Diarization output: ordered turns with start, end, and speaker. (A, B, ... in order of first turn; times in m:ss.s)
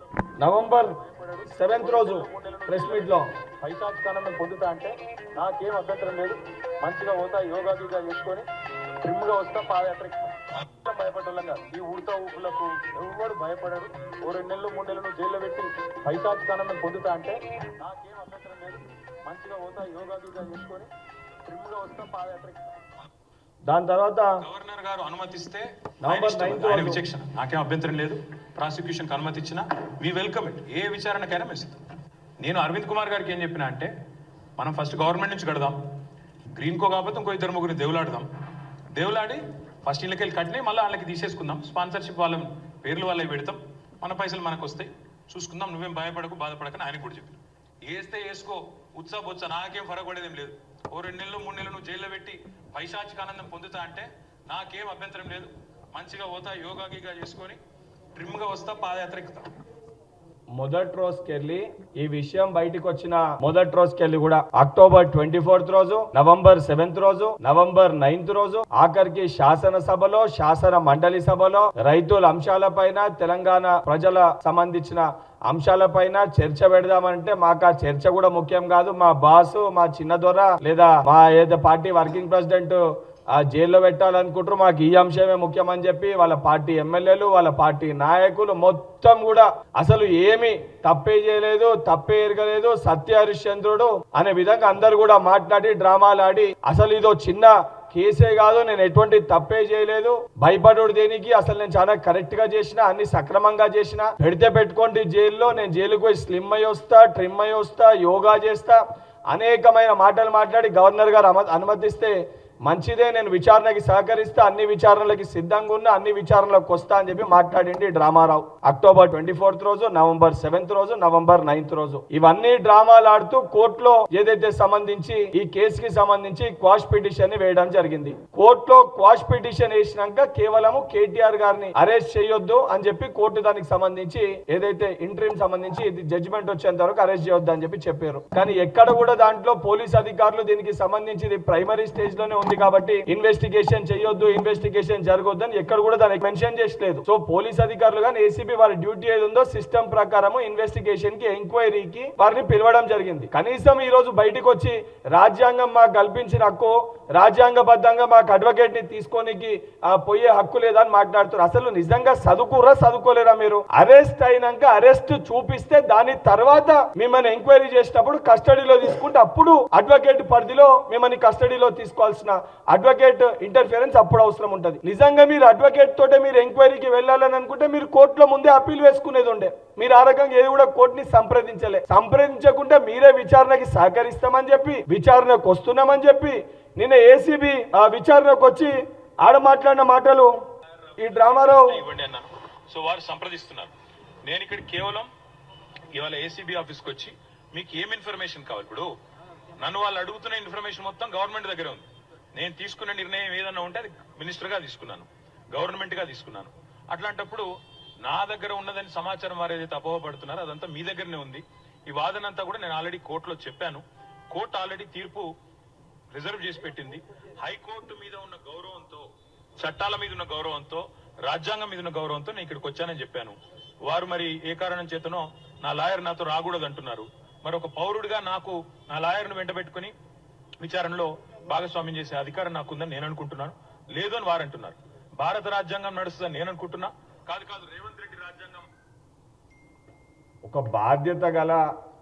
0:00.4-0:01.0 A
0:00.8-0:08.5 B
0:01.5-0:03.3 A
0:09.0-0:20.9 B
0:21.5-0:22.6 B
0:23.7-0:24.4 A
0:24.4-0:31.8 C
0:26.0-0:27.0 A
0:32.4-0:33.9 C
0:34.6-0:35.9 C
0:36.6-0:38.3 C
0:38.9-0:57.6 C
0:58.2-0:59.5 C
1:00.6-1:22.8 A
1:23.3-1:52.1 A
1:52.7-3:10.3 A
3:10.9-3:13.7 C
3:11.0-3:11.8 A
3:14.2-3:15.1 C
3:15.9-3:18.9 C
3:19.6-3:27.5 C
3:28.0-3:35.3 C
3:36.1-3:49.9 C
3:50.6-3:58.7 C
4:00.4-4:01.6 A